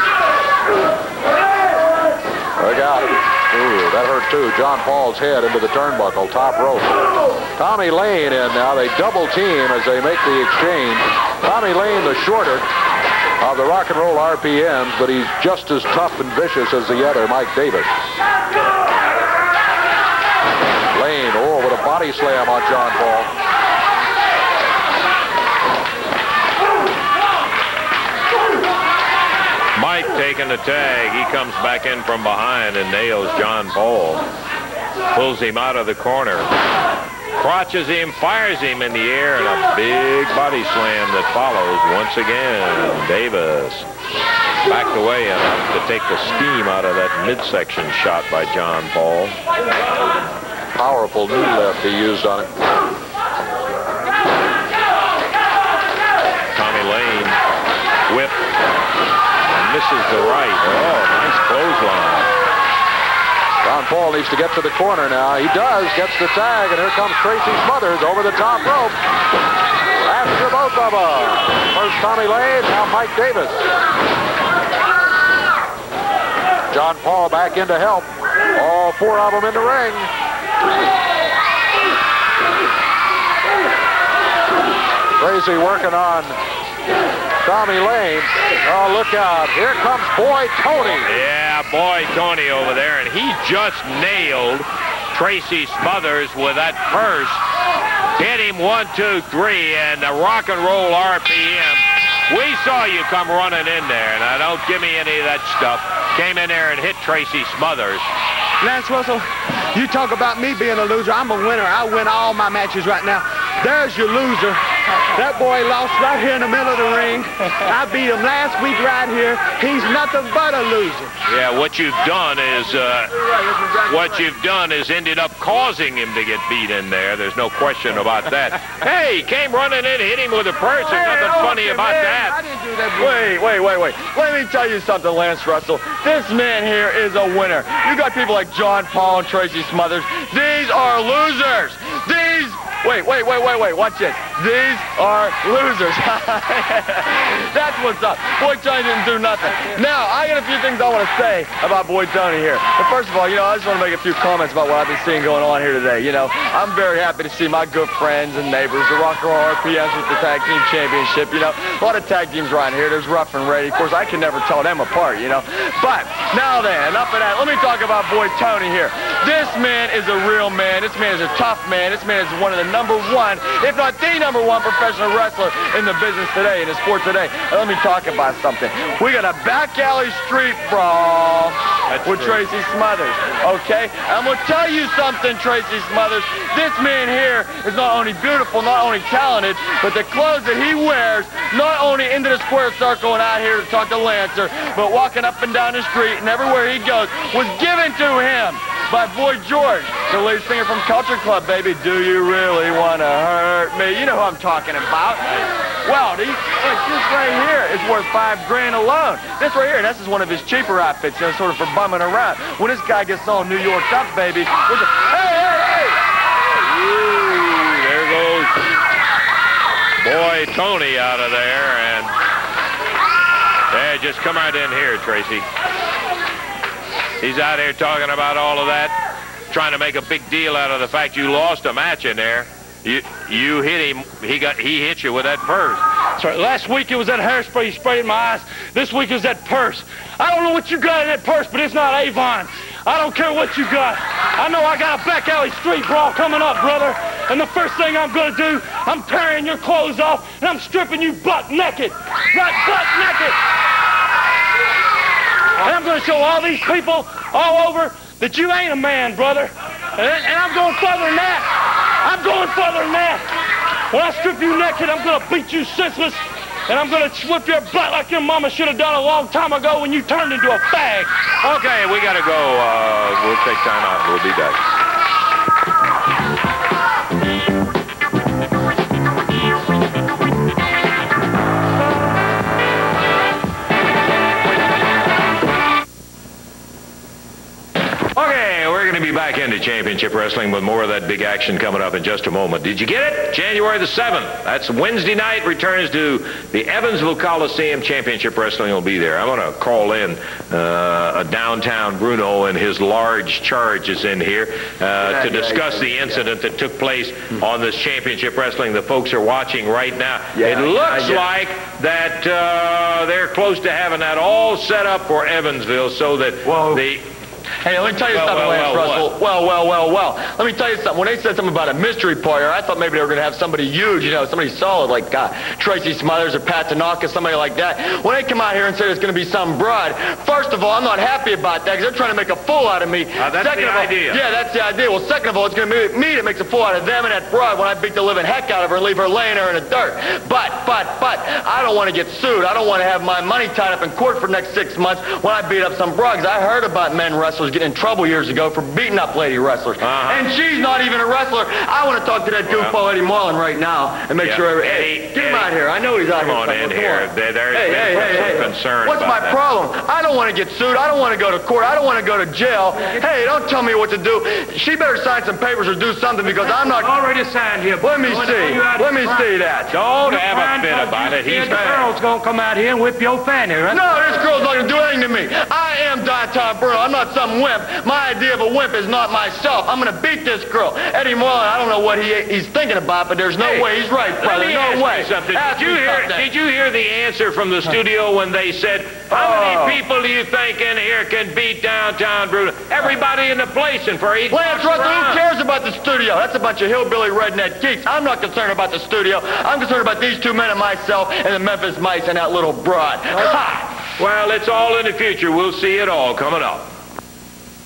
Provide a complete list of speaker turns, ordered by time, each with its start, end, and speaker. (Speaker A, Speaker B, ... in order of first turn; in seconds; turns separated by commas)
Speaker A: 2.6-12.7, Speaker A: 13.4-17.9, Speaker A: 20.9-23.3, Speaker B: 29.7-34.2, Speaker B: 35.1-36.5, Speaker B: 37.4-43.9, Speaker B: 44.6-49.4, Speaker A: 50.7-52.5, Speaker B: 56.5-57.4, Speaker B: 58.1-58.5, Speaker B: 59.4-62.3, Speaker A: 63.6-69.0, Speaker A: 70.0-73.7, Speaker A: 76.7-80.1, Speaker A: 85.2-86.4, Speaker A: 87.4-91.1, Speaker B: 91.0-97.5, Speaker B: 98.2-108.1, Speaker C: 108.6-114.6, Speaker C: 115.1-121.1, Speaker B: 121.2-132.4, Speaker C: 131.0-133.3, Speaker D: 133.0-215.9, Speaker B: 181.9-182.4, Speaker B: 216.6-218.6, Speaker B: 220.0-222.1, Speaker B: 223.7-225.5, Speaker B: 227.2-229.0, Speaker B: 229.5-235.8, Speaker E: 236.2-253.4, Speaker E: 255.6-261.5, Speaker E: 262.0-263.2, Speaker E: 263.9-271.1, Speaker B: 271.4-274.6, Speaker B: 288.1-317.0, Speaker D: 317.6-367.0, Speaker B: 318.1-319.1, Speaker B: 333.2-334.2, Speaker B: 349.8-350.3, Speaker B: 352.4-352.7, Speaker B: 354.2-359.4, Speaker C: 367.0-368.9, Speaker D: 367.8-369.8, Speaker E: 368.4-369.2, Speaker B: 369.7-371.9, Speaker C: 370.3-373.8, Speaker D: 373.7-386.2, Speaker B: 383.4-395.2, Speaker D: 389.1-389.8, Speaker D: 394.3-403.8, Speaker B: 404.0-406.7